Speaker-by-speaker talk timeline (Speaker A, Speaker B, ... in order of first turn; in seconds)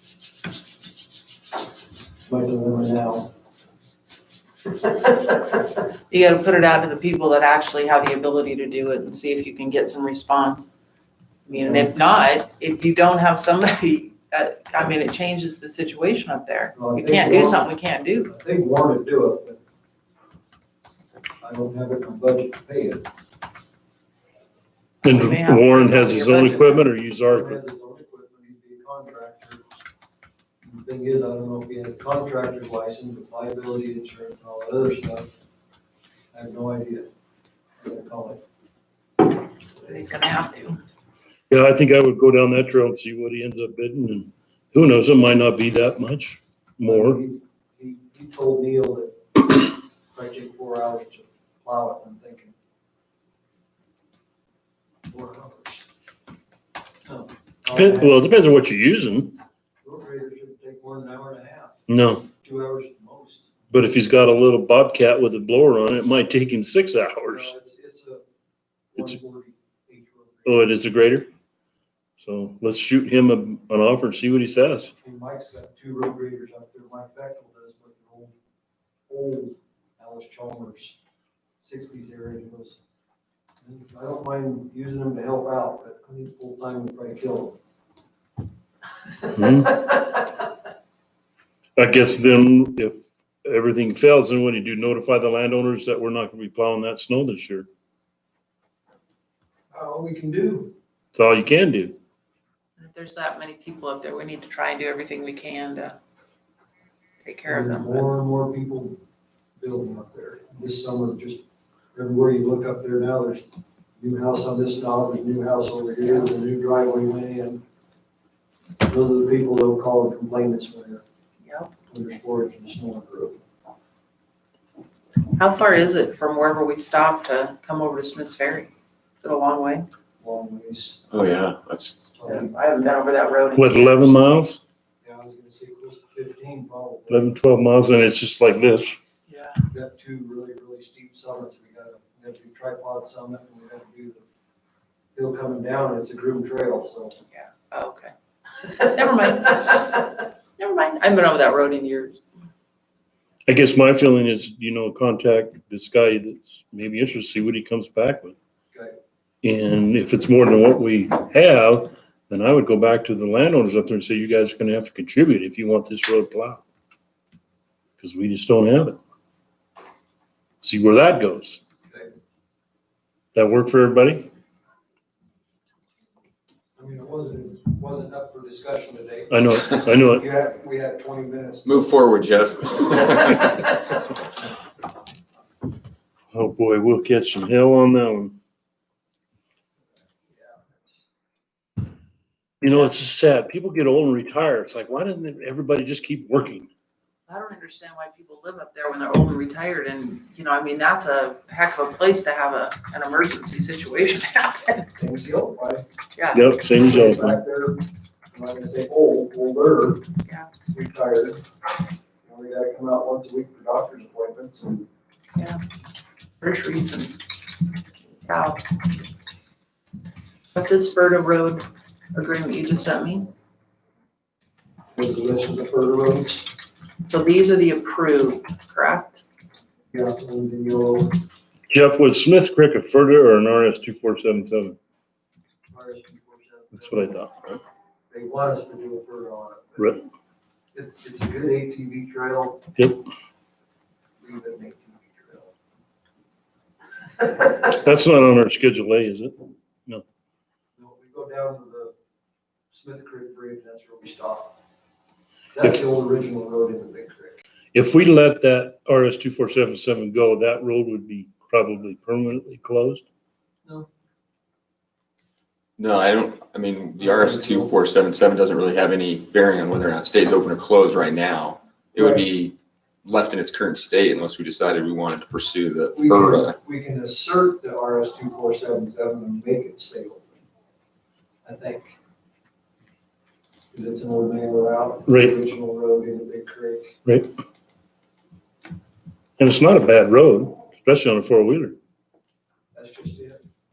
Speaker A: 2.2-3.3, 11.5-11.9, 16.7-17.7, 18.3-19.6, 21.4-23.0, 27.2-29.6, 30.6-35.3, 36.3-37.1, 37.8-38.4, 46.8-52.5, 55.1-55.9, 57.1-58.2, 59.8-61.8, 62.4-63.5, 67.2-68.2, 68.9-70.7, 75.0-78.3, 79.1-81.0, 81.6-82.8, 83.6-87.6, 99.7-100.7, 107.5-109.0, 109.6-111.4, 111.9-113.5, 114.0-117.6, 118.8-121.0, 121.9-123.4, 130.2-131.1, 132.2-132.5, 135.0-137.3, 139.7-144.2, 145.1-147.2, 176.8-181.9, 190.3-191.1, 204.9-205.9, 206.7-210.0, 210.7-211.4, 212.2-214.9, 224.9-226.5, 229.9-231.2, 235.7-237.2, 238.1-240.0, 240.7-242.6, 244.2-245.5, 250.8-251.9, 252.7-254.6, 255.5-257.4, 267.0-267.9, 271.9-272.2, 275.9-280.4, 281.4-281.9, 283.7-287.0, 292.7-293.4
Speaker B: 6.1-10.7, 11.4-18.3, 25.1-26.9, 39.8-40.8, 102.8-106.0, 107.2-108.0, 121.4-121.7, 125.4-128.7, 129.2-129.9, 132.2-134.1, 139.3-139.6, 147.3-148.1, 148.7-152.2, 197.3-204.8, 206.2-206.4, 216.4-217.2, 218.2-218.6, 220.5-223.3, 227.0-229.2
Speaker C: 25.0-27.6, 41.5-47.2, 57.7-59.4, 61.9-62.2, 63.7-67.5, 70.5-71.3, 72.2-74.9, 89.3-89.9, 91.8-97.7, 101.1-102.0, 133.6-134.6, 137.1-139.0, 153.5-158.4, 159.4-166.6, 168.0-169.0, 170.6-171.6, 173.3-174.3, 179.3-180.3, 186.3-188.3, 192.6-196.7, 206.3-207.4, 231.7-234.8, 236.7-237.6, 247.6-250.0, 257.7-263.0, 285.1-285.4, 289.4-291.8
Speaker D: 131.1-132.0, 181.6-183.8, 265.8-276.6